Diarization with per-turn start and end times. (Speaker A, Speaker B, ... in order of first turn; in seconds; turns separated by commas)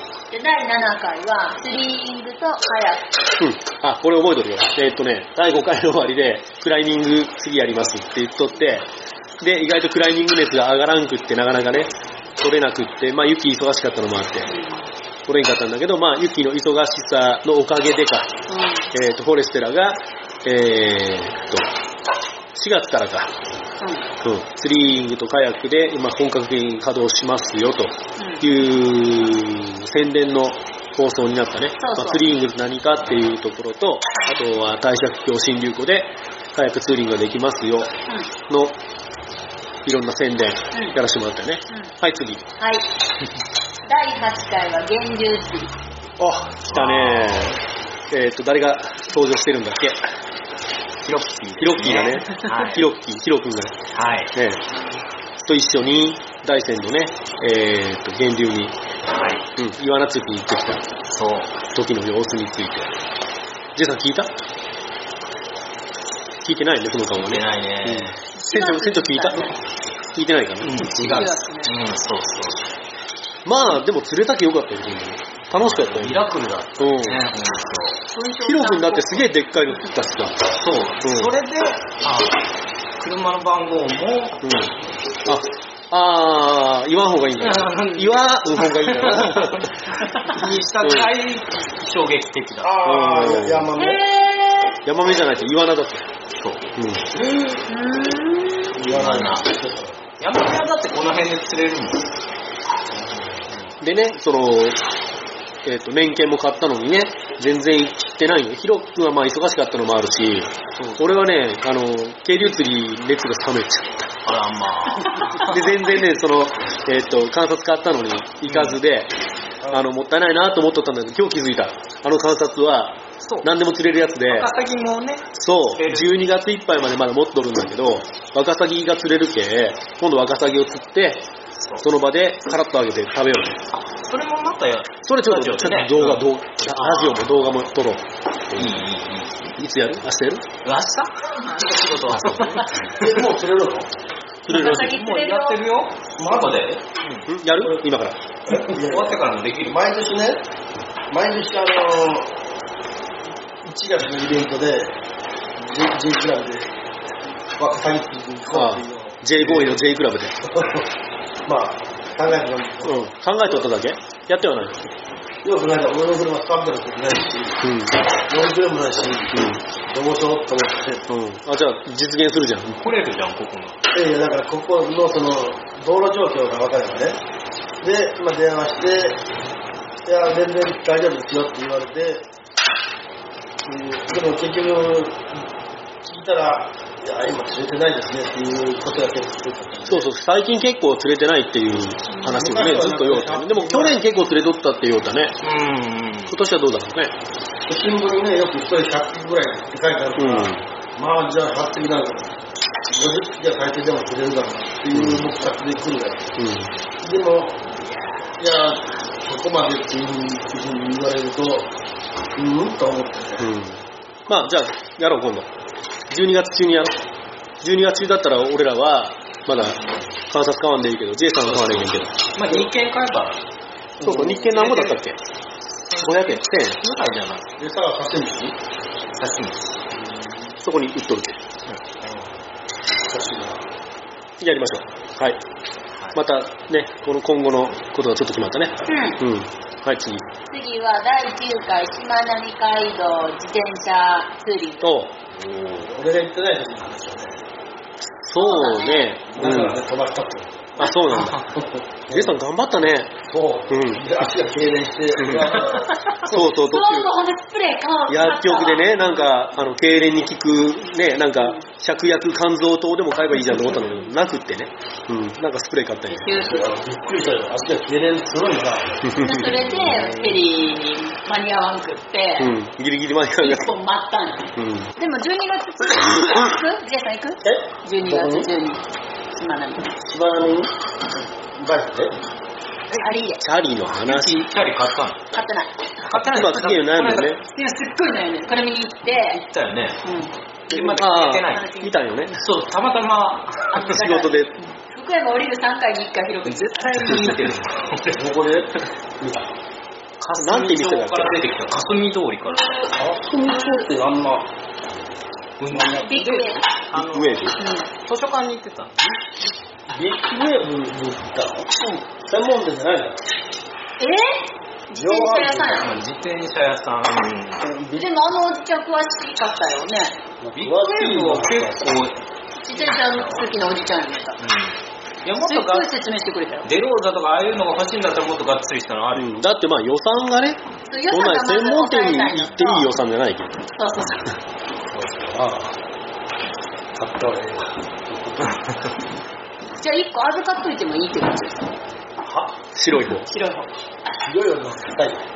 Speaker A: 0.3-3.1, Speaker B: 3.4-14.5, Speaker A: 14.5-14.9, Speaker B: 15.3-18.3, Speaker A: 18.5-18.9, Speaker B: 18.9-21.7, Speaker B: 22.5-23.3, Speaker A: 23.8-24.1, Speaker B: 24.2-37.9, Speaker A: 28.2-28.5, Speaker A: 31.8-32.3, Speaker B: 38.5-38.8, Speaker B: 39.8-42.4, Speaker A: 41.7-41.9, Speaker A: 42.6-42.9, Speaker A: 43.8-45.7, Speaker B: 46.2-47.6, Speaker C: 46.7-47.6, Speaker B: 48.1-50.0, Speaker C: 51.0-52.8, Speaker B: 51.6-53.8, Speaker C: 53.9-54.3, Speaker B: 54.3-54.6, Speaker B: 55.4-58.8, Speaker C: 59.1-59.5, Speaker B: 59.6-60.9, Speaker C: 61.1-61.6, Speaker B: 61.7-63.0, Speaker B: 63.7-64.3, Speaker B: 66.4-69.5, Speaker C: 67.2-68.2, Speaker A: 68.3-69.6, Speaker B: 70.1-71.3, Speaker C: 70.6-72.7, Speaker A: 71.0-71.7, Speaker B: 73.4-76.2, Speaker C: 75.5-78.0, Speaker B: 76.8-77.2, Speaker A: 78.1-79.3, Speaker B: 78.4-80.5, Speaker C: 80.5-82.4, Speaker B: 81.0-81.3, Speaker C: 83.0-84.4, Speaker B: 84.4-89.7, Speaker C: 87.4-92.9, Speaker B: 90.8-91.1, Speaker D: 92.6-94.0, Speaker B: 92.8-93.7, Speaker A: 93.8-94.8, Speaker B: 94.8-96.1, Speaker C: 96.4-97.2, Speaker B: 96.8-97.0, Speaker A: 97.7-98.8, Speaker D: 98.8-100.0, Speaker C: 98.8-99.5, Speaker C: 100.2-102.1, Speaker C: 103.4-103.7, Speaker B: 103.8-104.8, Speaker B: 105.6-114.1, Speaker C: 110.8-111.3, Speaker C: 114.2-115.6, Speaker A: 115.1-115.4, Speaker B: 115.3-119.1, Speaker C: 118.5-118.8, Speaker B: 119.7-124.5, Speaker C: 123.2-123.5, Speaker C: 124.3-126.2, Speaker B: 125.3-131.3, Speaker C: 131.6-131.8, Speaker B: 131.8-133.6, Speaker C: 133.8-137.4, Speaker B: 135.0-138.8, Speaker C: 138.5-139.5, Speaker B: 139.6-140.4, Speaker C: 140.6-143.3, Speaker B: 142.1-142.6, Speaker D: 142.9-143.9, Speaker B: 144.4-145.0, Speaker A: 144.5-145.6, Speaker C: 144.5-147.3, Speaker D: 146.2-146.8, Speaker B: 147.3-148.2, Speaker D: 148.5-150.4, Speaker C: 148.5-149.8, Speaker D: 151.1-152.3, Speaker D: 153.6-154.9, Speaker D: 155.6-156.7, Speaker D: 157.6-159.8, Speaker B: 158.5-160.4, Speaker D: 160.4-160.9, Speaker D: 161.4-163.6, Speaker B: 162.8-164.8, Speaker D: 165.4-167.6, Speaker B: 167.6-168.0, Speaker D: 168.2-171.0, Speaker B: 169.3-169.6, Speaker B: 171.1-172.8, Speaker C: 172.7-173.8, Speaker D: 173.9-177.2, Speaker D: 177.8-179.2, Speaker D: 180.1-182.2, Speaker D: 183.6-185.4, Speaker D: 186.0-190.1, Speaker B: 189.8-195.4, Speaker A: 192.1-192.4, Speaker D: 192.3-194.0, Speaker C: 195.4-196.4, Speaker B: 196.3-197.1, Speaker D: 197.7-202.3, Speaker B: 200.2-200.6, Speaker D: 202.9-206.4, Speaker B: 204.9-205.3, Speaker B: 206.4-206.7, Speaker D: 207.0-207.6, Speaker D: 208.4-211.7, Speaker D: 212.3-213.5, Speaker B: 213.4-215.5, Speaker B: 216.1-217.0, Speaker B: 217.6-222.2, Speaker C: 221.4-223.4, Speaker D: 224.0-224.5, Speaker B: 224.0-225.2, Speaker C: 224.2-225.0, Speaker C: 225.9-227.5, Speaker B: 226.0-226.8, Speaker D: 227.6-228.6, Speaker C: 229.2-229.7, Speaker D: 230.0-230.5, Speaker B: 230.6-231.4, Speaker C: 231.7-232.3, Speaker D: 233.1-233.6, Speaker B: 234.4-235.4, Speaker B: 236.1-240.2, Speaker A: 238.8-239.2, Speaker A: 240.5-245.0, Speaker B: 244.8-245.1, Speaker D: 245.6-247.4, Speaker B: 248.2-249.8, Speaker A: 248.3-249.2, Speaker D: 249.3-252.4, Speaker B: 250.8-251.4, Speaker C: 251.1-251.4, Speaker B: 252.1-253.2, Speaker D: 253.3-256.0, Speaker B: 253.7-254.1, Speaker B: 255.2-255.5, Speaker B: 256.2-257.1, Speaker A: 256.4-259.2, Speaker B: 258.1-266.3, Speaker A: 261.3-261.6, Speaker A: 266.1-266.7, Speaker D: 266.4-269.3, Speaker B: 269.0-270.1, Speaker A: 269.2-272.5, Speaker B: 272.4-273.7, Speaker A: 273.4-278.8, Speaker B: 274.6-274.9, Speaker D: 277.4-278.5, Speaker A: 279.3-280.0, Speaker D: 280.0-280.7, Speaker D: 281.5-282.1, Speaker C: 282.9-283.2, Speaker A: 283.0-283.4, Speaker B: 283.4-284.5, Speaker C: 284.0-285.2, Speaker A: 285.3-285.9, Speaker C: 286.1-287.4, Speaker B: 286.1-287.4, Speaker A: 287.4-289.4, Speaker C: 289.3-290.0, Speaker A: 290.0-290.3, Speaker C: 290.7-291.7, Speaker B: 290.7-292.4, Speaker A: 291.5-292.0, Speaker C: 292.3-293.9, Speaker A: 293.7-297.4, Speaker B: 293.9-294.5, Speaker C: 296.4-298.6, Speaker D: 298.1-299.5, Speaker B: 300.2-301.4, Speaker C: 300.2-302.9, Speaker D: 302.9-304.5, Speaker A: 303.5-303.8, Speaker C: 305.6-309.0, Speaker D: 305.7-306.2, Speaker A: 306.0-306.6, Speaker B: 306.9-307.6, Speaker A: 307.5-307.9, Speaker D: 309.9-313.2, Speaker A: 314.0-315.9, Speaker D: 314.9-315.9, Speaker C: 315.7-317.6, Speaker D: 317.6-318.1, Speaker A: 317.9-320.2, Speaker D: 320.4-322.0, Speaker C: 320.5-322.2, Speaker A: 322.6-324.4, Speaker C: 322.7-323.4, Speaker C: 324.4-325.9, Speaker A: 325.4-326.7, Speaker C: 326.6-329.4, Speaker B: 329.1-333.6, Speaker A: 330.9-332.9, Speaker A: 333.7-334.2, Speaker D: 334.9-335.8, Speaker D: 336.9-338.6, Speaker A: 339.8-341.7, Speaker D: 342.2-342.6, Speaker B: 342.7-343.3, Speaker A: 343.1-343.7, Speaker D: 344.2-345.2